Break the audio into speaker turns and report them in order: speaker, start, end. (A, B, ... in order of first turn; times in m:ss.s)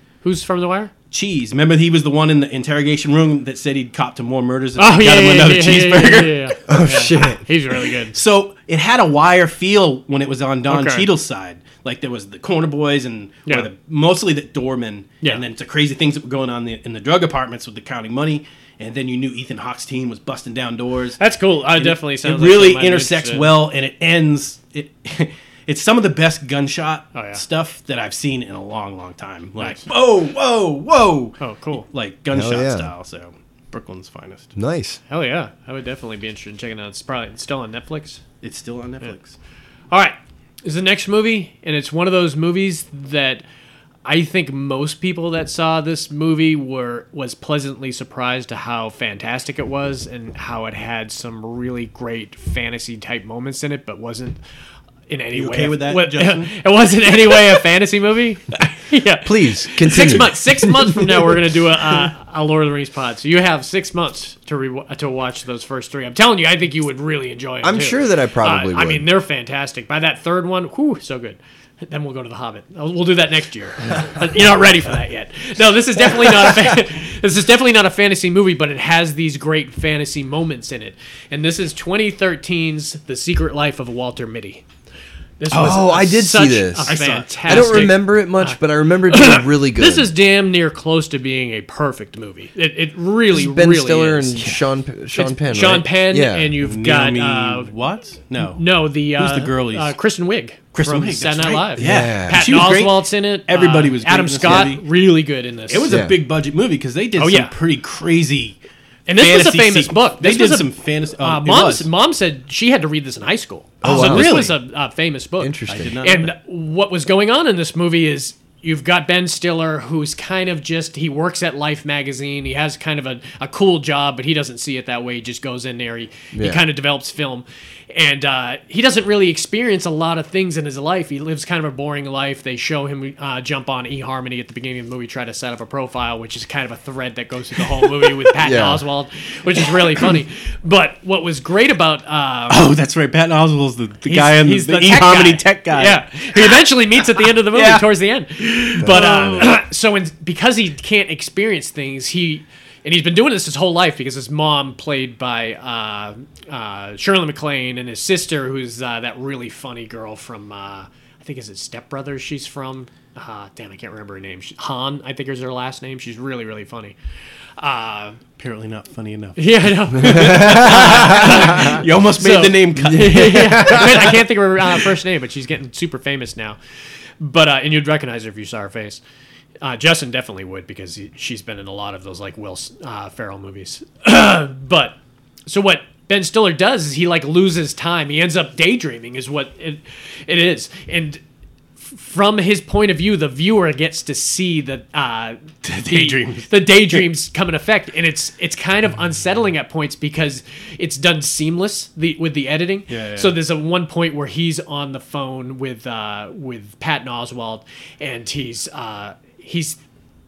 0:00.2-0:00.9 A
0:01.1-0:06.6 B
0:04.8-0:08.2 A
0:06.7-0:07.4 C
0:07.9-0:21.2 B
0:10.7-0:11.1 A
0:21.2-0:23.5 A
0:21.8-0:34.5 B
0:27.1-0:27.4 A
0:29.6-0:29.8 A
0:31.4-0:31.8 A
0:32.3-0:32.9 C
0:34.6-0:35.0 C
0:35.1-0:38.2 A
0:38.4-0:39.4 B
0:39.9-0:43.4 A
0:44.0-0:54.4 A
0:55.1-1:24.6 A
0:55.3-0:56.5 B
0:59.2-1:00.4 C
1:07.6-1:09.0 C
1:25.4-1:37.7 A
1:25.5-1:30.1 C
1:26.8-1:27.9 B
1:33.3-1:36.5 C
1:36.6-1:38.6 B
1:38.4-1:45.9 A
1:39.2-1:39.9 B
1:40.7-1:44.8 B
1:41.8-1:42.4 C
1:45.7-1:48.6 B
1:45.8-1:46.2 C
1:47.2-1:47.5 A
1:49.1-2:22.7 A
1:49.2-1:51.9 B
1:53.8-1:54.5 C
1:53.8-1:54.6 B
1:55.4-1:56.0 C
1:55.7-1:56.3 B
2:06.3-2:06.6 C
2:18.4-2:18.8 C
2:22.5-2:27.8 B
2:24.0-2:47.0 A
2:28.8-2:29.5 C
2:28.8-2:29.5 B
2:47.6-2:48.2 A
2:48.4-2:54.1 B
2:49.4-2:56.6 A
2:50.0-2:51.8 C
2:52.8-2:54.3 C
2:57.2-2:59.0 A
2:59.6-3:11.2 A
3:11.8-3:29.8 A
3:15.6-3:17.0 B
3:22.9-3:23.4 B